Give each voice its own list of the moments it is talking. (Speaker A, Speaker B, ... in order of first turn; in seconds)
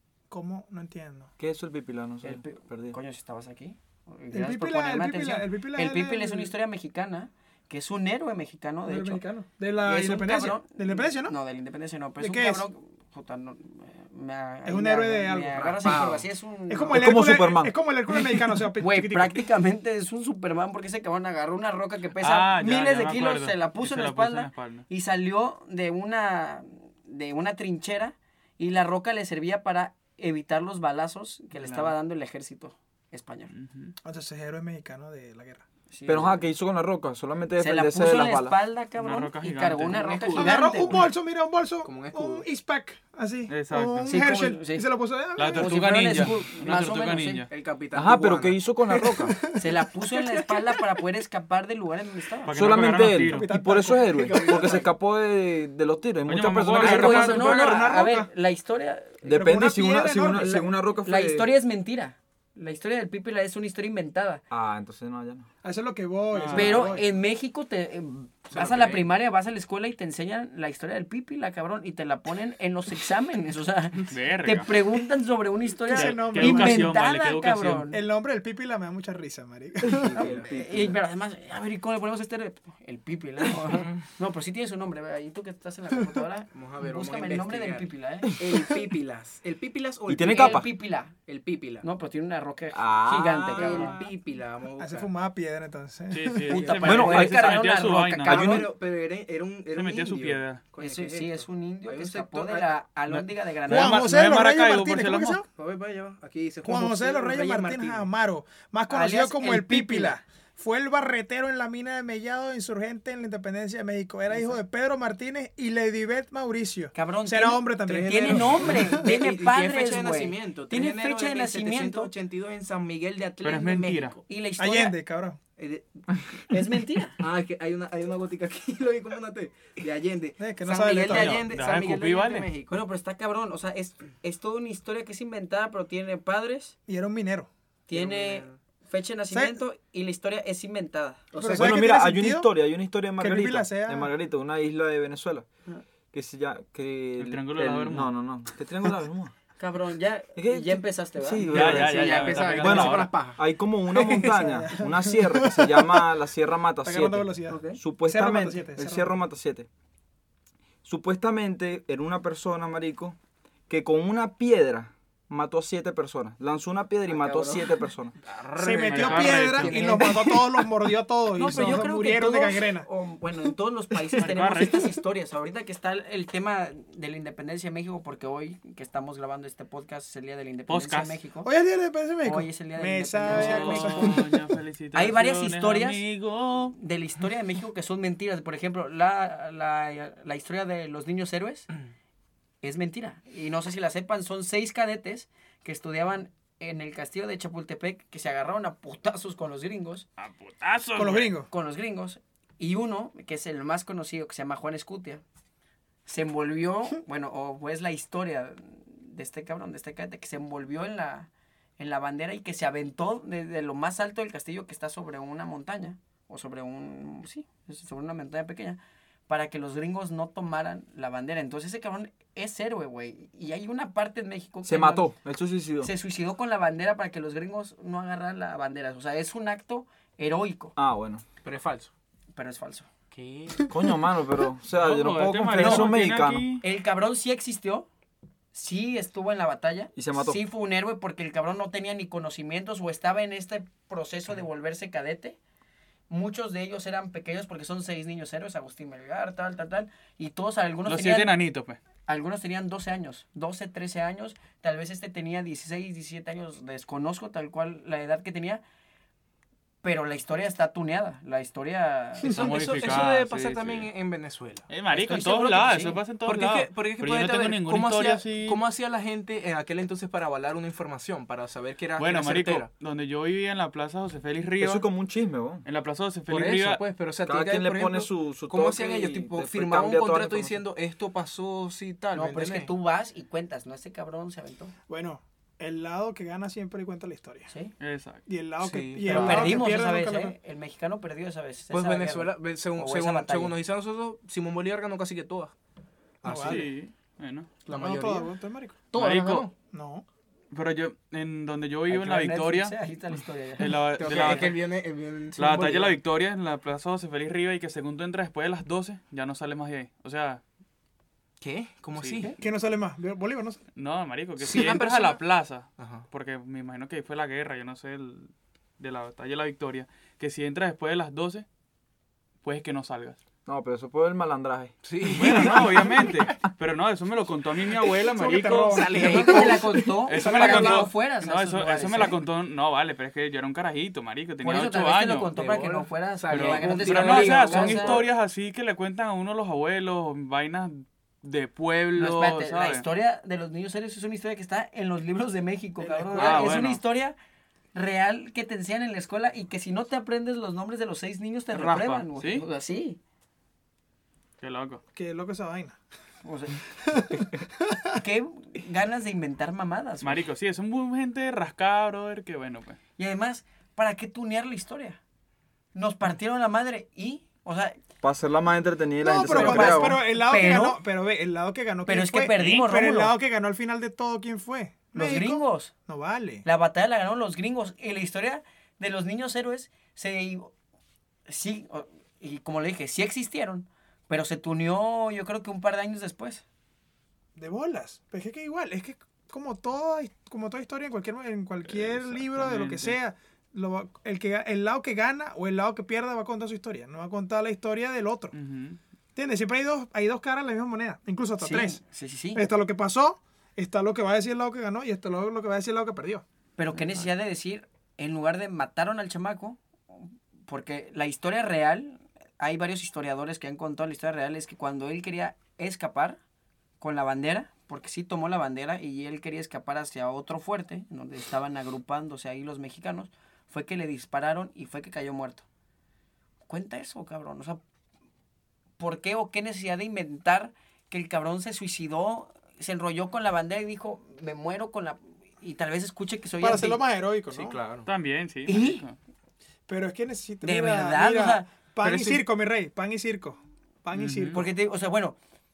Speaker A: 0.3-1.3, 4.3-6.5, 8.8-11.3, 12.2-12.6, 14.6-16.0, 16.7-19.4, 34.0-35.6, 40.3-45.8, 48.9-50.8, 53.2-54.6, 56.8-58.3, 59.2-60.7, 65.6-67.1, 75.8-77.0, 77.9-80.2, 94.8-96.8, 103.7-105.5, 106.6-119.0, 124.6-125.4, 130.4-131.4, 136.9-137.5, 139.3-139.6, 141.3-142.5, 143.2-144.1, 153.9-156.1, 156.8-159.1, 168.6-172.9, 181.4-184.5, 200.9-201.5, 284.9-287.5, 288.3-290.4, 296.2-296.7, 297.7-298.8, 299.7-300.0, 312.4-313.6, 328.0-330.9, 354.9-355.8, 356.8-357.9, 369.0-376.4, 387.4-398.3, 399.1-401.8, 402.3-406.2, 436.4-437.6, 439.7-444.5
Speaker B: 1.4-3.0, 16.9-17.7, 36.1-38.6, 47.9-49.4, 52.5-57.4, 59.2-61.5, 64.5-65.5, 79.8-80.9, 88.3-88.6, 90.1-90.7, 92.7-94.0, 96.8-97.7, 98.3-98.7, 141.5-145.5, 146.1-149.3, 150.3-159.7, 160.8-163.2, 163.7-168.2, 224.6-225.9, 230.8-231.2, 233.7-236.5, 239.9-240.4, 274.6-275.6, 277.2-280.6, 323.4-325.6, 368.0-370.0
Speaker C: 2.2-9.2, 9.8-17.2, 18.1-33.5, 35.9-36.4, 37.6-41.0, 44.1-44.9, 45.5-47.5, 49.5-52.5, 56.8-59.2, 61.0-64.4, 66.5-78.0, 80.4-88.3, 90.2-91.2, 91.8-94.0, 96.5-98.7, 100.8-104.1, 108.9-110.2, 116.9-122.1, 124.3-125.0, 126.5-127.2, 132.7-136.7, 137.9-141.3, 149.6-151.8, 157.5-157.8, 167.1-167.8, 171.3-181.5, 182.2-184.2, 184.9-186.0, 186.7-191.7, 192.6-200.1, 201.5-205.2, 206.1-225.1, 225.8-230.7, 232.3-232.9, 236.6-237.9, 238.5-245.4, 246.1-251.3, 252.1-258.6, 259.8-262.5, 264.9-266.0, 282.1-284.7, 287.5-287.7, 289.1-293.6, 301.9-304.5, 328.9-332.2, 334.4-338.1, 341.9-347.1, 347.7-353.0, 356.2-356.6, 358.0-360.2, 363.0-365.0, 365.7-367.8, 369.2-370.8, 371.9-373.1, 374.9-375.7, 376.4-380.5, 381.3-386.4, 401.4-402.4, 406.6-416.2, 416.8-425.4, 426.5-427.6, 428.8-436.8, 438.4-438.8, 440.4-442.0, 444.3-445.2
Speaker D: 15.5-16.3, 39.9-41.0, 41.8-42.4, 47.5-48.6, 54.0-54.9, 68.5-69.0, 80.0-80.5, 86.5-91.8, 93.5-95.1, 98.3-102.7, 105.5-108.1, 117.9-124.2, 125.6-125.9, 127.2-132.8, 137.9-138.6, 141.3-141.8, 151.5-153.4, 168.2-170.5, 231.4-231.9, 233.1-233.7, 262.2-265.2, 266.2-272.7, 276.3-282.7, 288.6-289.6, 291.7-295.5, 296.2-296.7, 297.6-298.3, 298.9-299.5, 304.0-306.0, 311.4-312.3, 314.4-315.2, 315.8-316.1, 324.8-326.1, 328.7-329.7, 335.3-338.1, 345.8-346.6, 437.3-437.9
Speaker E: 22.2-24.9, 31.5-31.9, 33.5-33.9, 39.0-40.0, 43.5-44.1, 45.4-47.5, 52.5-53.5, 56.2-57.5, 66.3-66.9, 74.1-74.7, 75.9-77.8, 96.1-98.5, 99.7-100.6, 103.1-105.4, 123.4-124.2, 131.1-132.5, 147.2-148.1, 151.4-153.1, 168.9-169.8, 174.2-174.9, 180.7-181.2, 183.3-186.8, 200.2-201.3, 234.7-236.6, 250.8-251.8, 262.2-263.9, 264.7-268.6, 272.0-274.8, 275.6-276.8, 287.8-288.2, 296.4-297.5, 298.9-299.5, 300.5-302.7, 303.6-304.6, 305.4-310.4, 311.9-312.3, 313.7-321.4, 322.4-323.2, 325.1-329.0, 330.1-335.3, 336.3-342.9, 346.2-346.8, 351.5-352.4, 354.4-354.8, 360.0-362.8, 391.7-393.0, 398.3-398.8, 437.9-438.9, 443.9-444.4